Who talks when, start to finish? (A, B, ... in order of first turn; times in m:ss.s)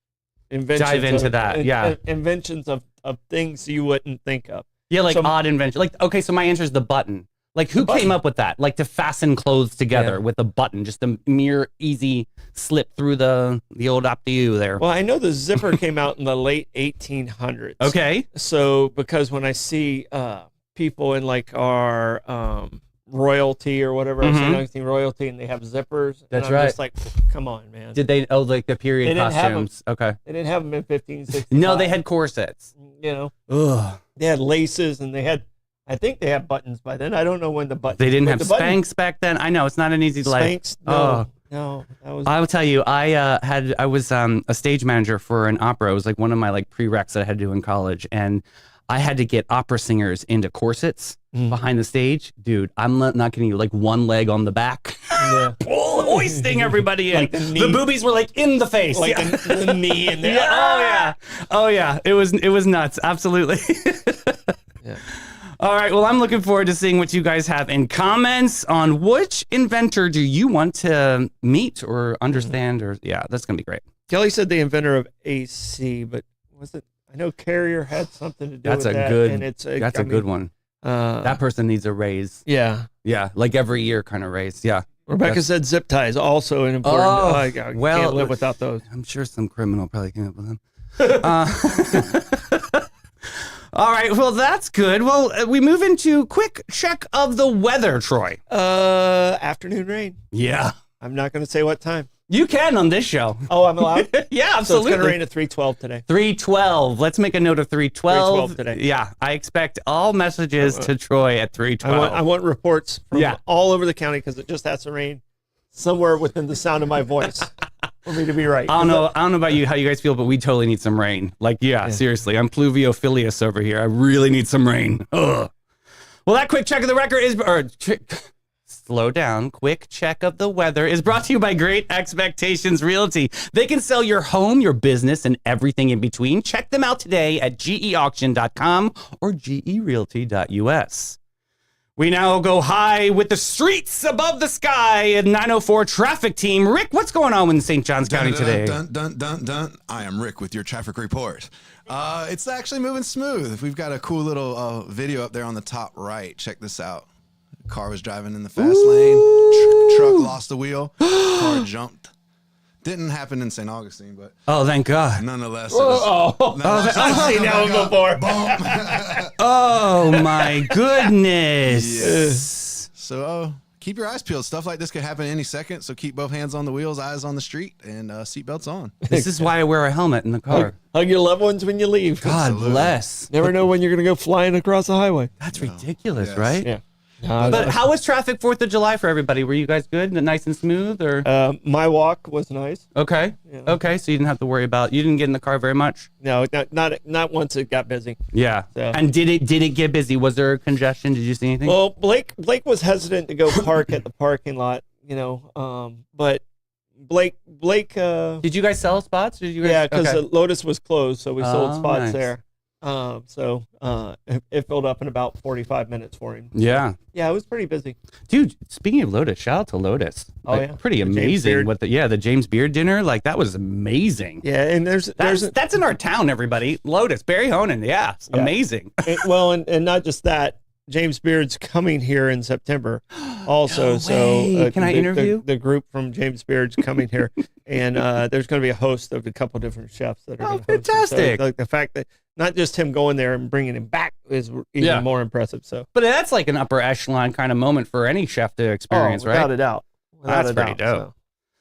0:00.5-0:05.3 A
0:00.8-0:02.0 B
0:04.9-0:14.8 B
0:07.8-0:08.1 A
0:09.9-0:10.2 A
0:14.8-0:28.0 A
0:17.8-0:18.3 B
0:24.2-0:24.6 B
0:26.3-0:26.8 B
0:27.9-0:30.2 B
0:29.0-0:29.7 A
0:30.2-0:32.0 A
0:31.5-0:32.7 B
0:32.8-0:33.3 A
0:33.5-0:34.0 B
0:34.2-0:38.8 A
0:38.0-0:41.3 B
0:40.2-0:42.4 A
0:42.3-1:04.5 B
0:51.3-0:51.6 A
0:55.2-0:57.8 A
0:58.9-1:01.1 A
1:05.1-1:13.8 B
1:14.1-1:20.3 A
1:18.6-1:20.5 B
1:20.8-1:21.4 A
1:21.2-1:22.4 B
1:22.5-1:22.9 A
1:23.0-1:25.4 B
1:25.1-1:28.8 A
1:26.8-1:38.4 B
1:31.0-1:31.3 A
1:38.5-1:40.2 A
1:40.3-1:40.7 B
1:41.0-1:42.1 A
1:42.3-1:45.2 B
1:43.5-1:46.0 A
1:46.1-1:52.2 B
1:48.1-1:48.8 A
1:50.6-1:50.9 A
1:51.8-1:57.5 A
1:53.1-1:53.4 B
1:58.0-1:59.1 A
1:58.7-2:05.5 B
2:06.2-2:21.2 B
2:22.0-2:28.8 B
2:28.0-2:37.1 C
2:37.7-2:42.1 C
2:38.6-2:40.3 B
2:41.2-2:41.6 B
2:42.8-2:44.4 C
2:44.5-2:45.2 B
2:45.2-2:49.3 C
2:45.7-2:49.3 A
2:46.6-2:47.4 B
2:49.4-2:52.9 B
2:50.1-2:50.7 A
2:51.7-2:52.4 C
2:52.0-2:52.4 A
2:52.9-2:59.0 C
2:59.1-2:59.5 A
2:59.1-3:00.8 B
3:00.5-3:02.5 A
3:02.2-3:03.0 C
3:02.2-3:03.5 B
3:03.3-3:05.3 A
3:05.4-3:06.7 B
3:05.5-3:06.7 C
3:06.6-3:07.8 A
3:07.4-3:11.3 B
3:11.2-3:12.8 A
3:12.9-3:16.1 B
3:13.5-3:13.8 A
3:16.2-3:18.2 A
3:18.3-3:21.8 B
3:18.7-3:19.0 A
3:21.6-3:26.4 A
3:27.0-3:28.4 A
3:28.4-3:30.2 B
3:29.6-3:38.0 A
3:31.4-3:32.3 B
3:36.5-3:37.0 B
3:38.3-3:44.4 B
3:40.4-3:41.7 A
3:44.4-3:45.5 A
3:45.2-3:49.2 B
3:49.0-4:05.9 A
3:53.2-3:55.4 B
4:00.4-4:01.4 B
4:04.8-4:05.1 B
4:05.9-4:09.5 B
4:08.9-4:11.1 A
4:10.3-4:11.1 B